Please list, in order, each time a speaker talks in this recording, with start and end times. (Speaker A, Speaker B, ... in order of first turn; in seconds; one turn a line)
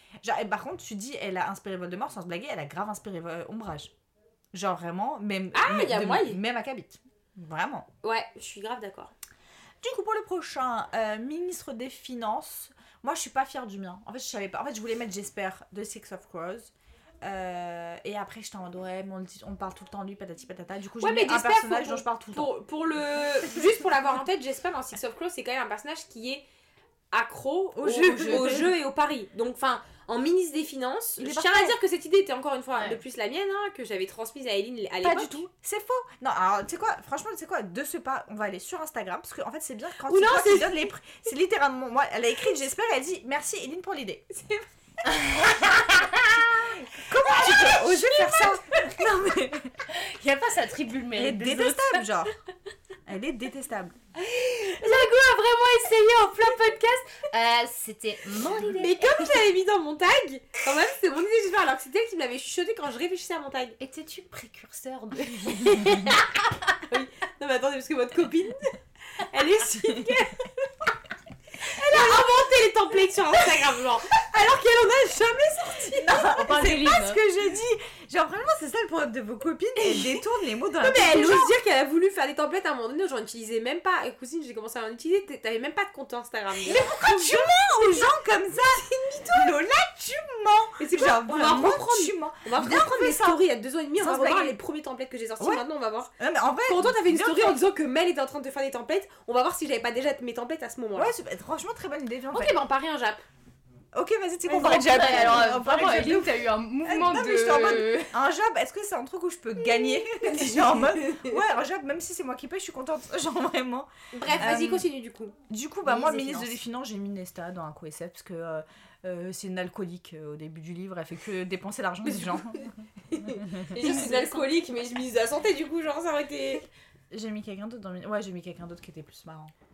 Speaker A: 0.2-3.9
Speaker A: 4.5-7.9
Speaker B: 5.5-6.4
Speaker B: 8.0-9.1
Speaker A: 9.8-22.5
Speaker B: 21.0-26.4
Speaker B: 27.1-35.4
Speaker A: 27.7-28.7
Speaker A: 31.2-31.8
Speaker A: 35.0-44.3
Speaker B: 40.1-40.9
Speaker B: 44.4-44.6
Speaker C: 45.1-46.4
Speaker A: 46.9-49.8
Speaker C: 47.3-48.6
Speaker C: 49.9-52.1
Speaker A: 51.1-52.4
Speaker A: 53.1-54.0
Speaker C: 54.4-59.3
Speaker B: 58.7-63.8
Speaker C: 63.8-66.2
Speaker B: 65.8-66.2
Speaker B: 66.9-70.7
Speaker B: 71.7-76.2
Speaker A: 72.0-72.2
Speaker A: 76.0-81.5
Speaker C: 76.2-77.2
Speaker B: 79.9-80.2
Speaker B: 80.8-88.1
Speaker A: 86.6-93.4
Speaker B: 88.7-89.6
Speaker B: 90.8-96.1
Speaker A: 94.0-94.6
Speaker A: 95.4-95.7
Speaker A: 96.2-97.6
Speaker B: 96.7-101.1
Speaker A: 101.0-102.6
Speaker B: 102.3-103.2
Speaker A: 103.9-114.9
Speaker C: 104.5-108.1
Speaker B: 104.6-105.5
Speaker B: 110.2-111.3
Speaker B: 114.1-115.4
Speaker A: 115.5-124.2
Speaker C: 115.9-116.4
Speaker B: 116.0-116.5
Speaker B: 122.1-122.6
Speaker B: 123.1-126.7
Speaker C: 123.8-124.5
Speaker A: 127.1-129.5